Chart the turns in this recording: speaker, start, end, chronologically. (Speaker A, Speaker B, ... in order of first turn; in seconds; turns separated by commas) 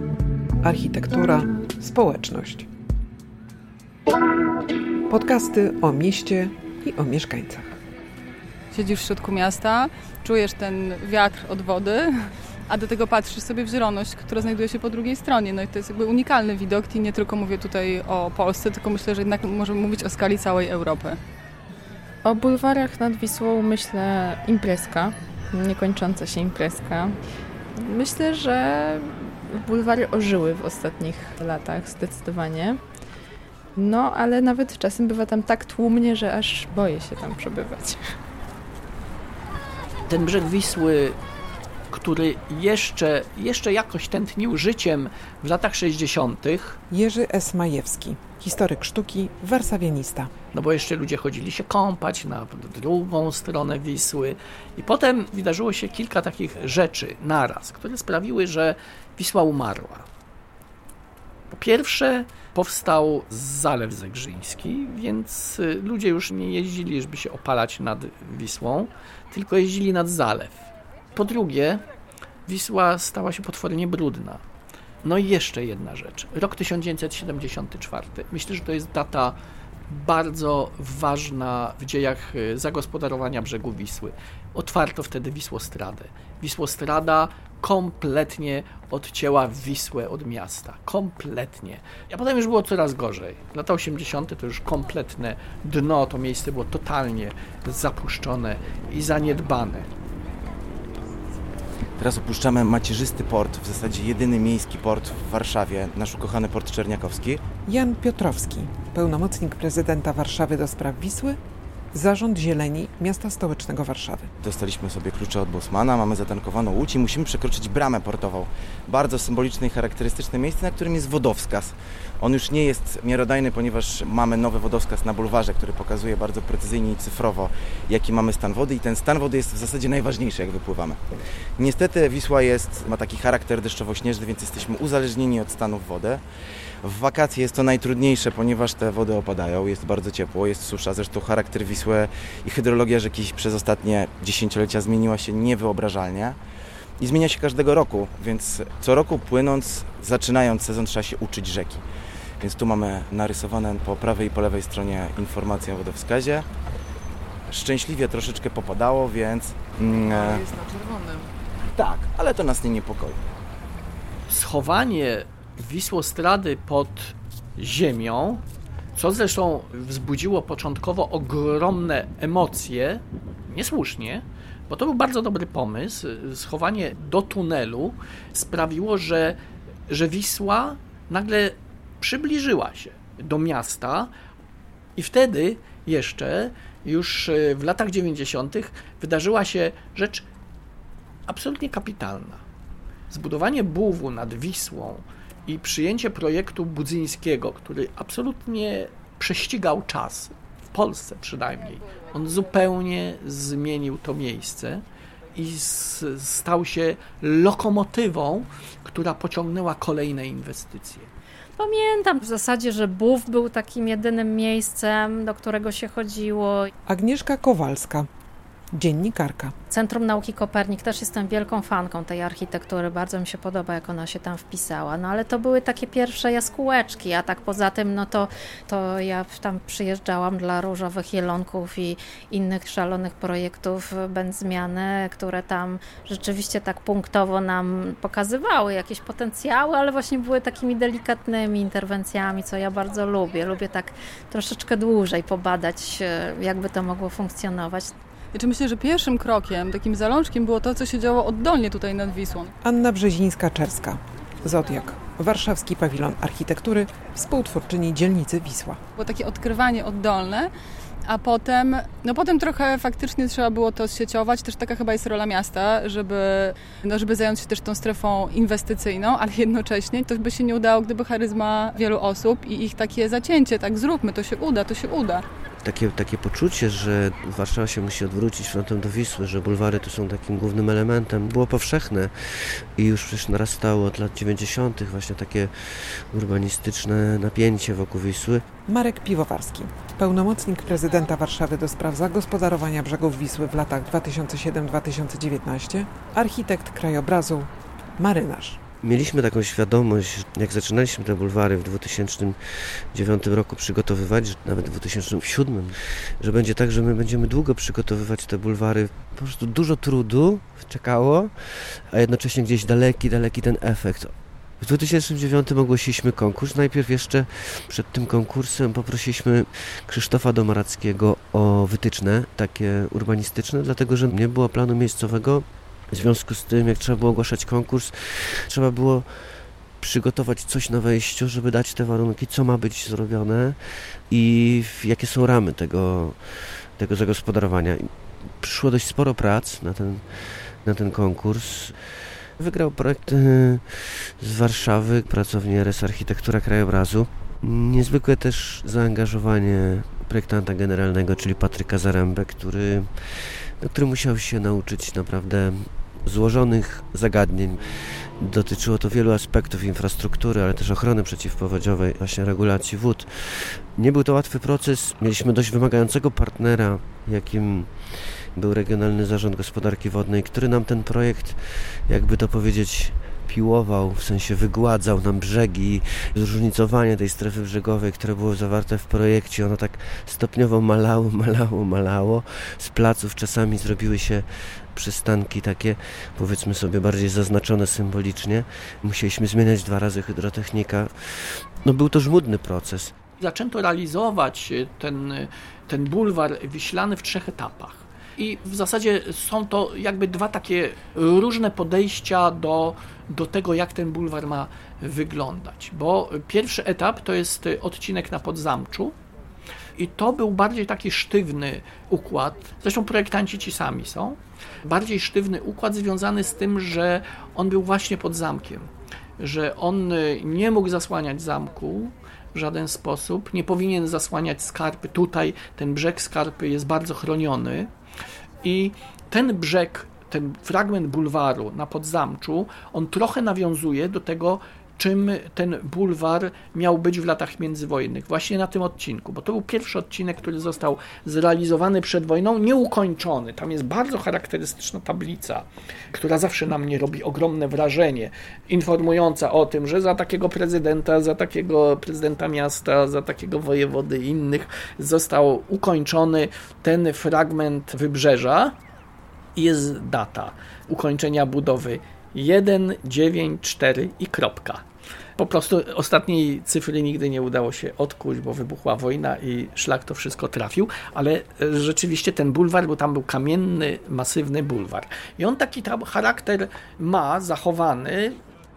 Speaker A: 0.6-2.7, Speaker A: 5.1-7.8, Speaker B: 8.7-21.2, Speaker C: 22.2-27.2, Speaker C: 27.8-32.8, Speaker C: 33.8-38.1, Speaker D: 40.1-41.2, Speaker D: 41.9-46.8, Speaker A: 46.9-50.3, Speaker D: 50.5-60.0, Speaker D: 61.5-71.8, Speaker D: 72.5-74.4, Speaker D: 75.0-79.3, Speaker D: 79.9-99.9, Speaker E: 102.0-107.4, Speaker A: 107.7-111.4, Speaker A: 111.9-114.3, Speaker E: 114.4-131.0, Speaker E: 131.6-136.2, Speaker E: 136.8-146.4, Speaker E: 147.0-151.8, Speaker E: 152.4-156.4, Speaker E: 157.5-160.5, Speaker E: 161.6-163.2, Speaker D: 164.3-168.4, Speaker D: 168.9-179.4, Speaker D: 179.9-184.1, Speaker D: 185.0-190.2, Speaker D: 191.3-192.4, Speaker D: 193.1-204.8, Speaker D: 205.3-211.1, Speaker F: 211.6-216.7, Speaker A: 216.9-218.1, Speaker A: 218.7-219.5, Speaker F: 219.7-247.9, Speaker B: 248.3-252.5, Speaker A: 252.6-258.8, Speaker B: 259.0-260.5, Speaker B: 261.0-275.2, Speaker G: 275.6-288.4, Speaker A: 288.7-298.6, Speaker G: 298.8-392.9, Speaker D: 393.2-408.9, Speaker D: 409.8-418.7, Speaker D: 419.2-427.7, Speaker D: 428.4-458.5, Speaker D: 459.4-464.6, Speaker D: 465.2-478.2